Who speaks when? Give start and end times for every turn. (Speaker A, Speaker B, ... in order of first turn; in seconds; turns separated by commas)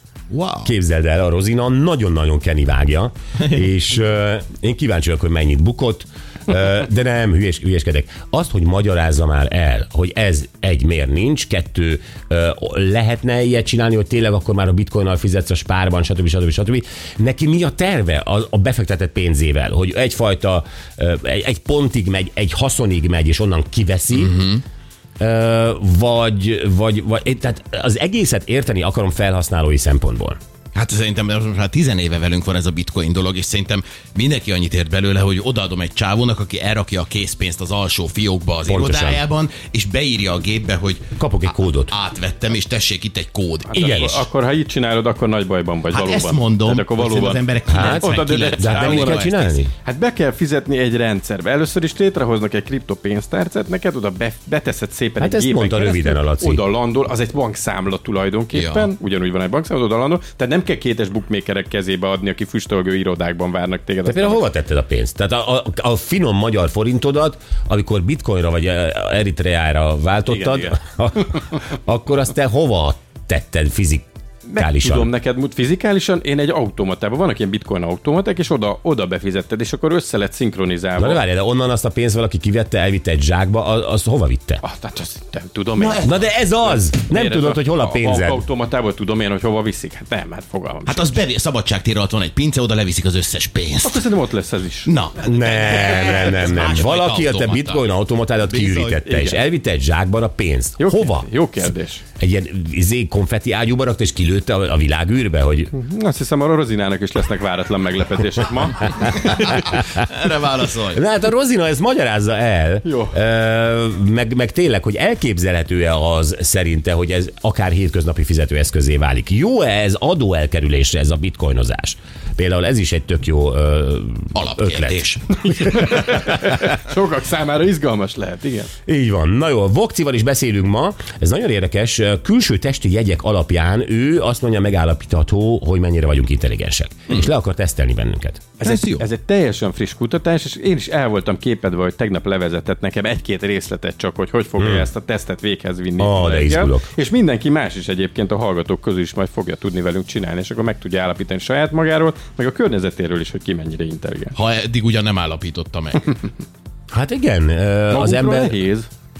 Speaker A: 0.3-0.7, Speaker B: 0.6-24.4, Speaker A: 24.1-24.6, Speaker B: 25.2-30.4, Speaker A: 30.7-44.2, Speaker B: 38.6-39.2, Speaker B: 41.2-41.9, Speaker C: 43.7-49.3, Speaker B: 43.7-44.2, Speaker A: 45.9-49.6, Speaker B: 47.7-49.7, Speaker C: 49.8-64.4, Speaker B: 55.2-56.6, Speaker A: 58.5-58.9, Speaker B: 64.0-75.1, Speaker C: 70.3-70.8, Speaker C: 74.5-81.2, Speaker B: 81.0-84.6, Speaker C: 84.6-91.0, Speaker B: 85.8-88.4, Speaker A: 90.8-94.0, Speaker C: 93.8-94.9, Speaker A: 94.8-99.0, Speaker B: 95.2-101.3, Speaker C: 99.0-99.4, Speaker C: 100.8-102.0, Speaker B: 102.2-105.7, Speaker C: 105.7-109.3, Speaker A: 109.3-111.0, Speaker B: 110.9-125.5, Speaker C: 112.8-113.1, Speaker A: 124.3-125.4, Speaker C: 125.5-128.7, Speaker B: 128.9-138.4, Speaker C: 138.6-154.3, Speaker A: 138.6-139.1, Speaker B: 144.6-144.9, Speaker B: 146.0-146.9, Speaker A: 154.3-156.2, Speaker B: 156.9-158.6, Speaker C: 157.9-158.9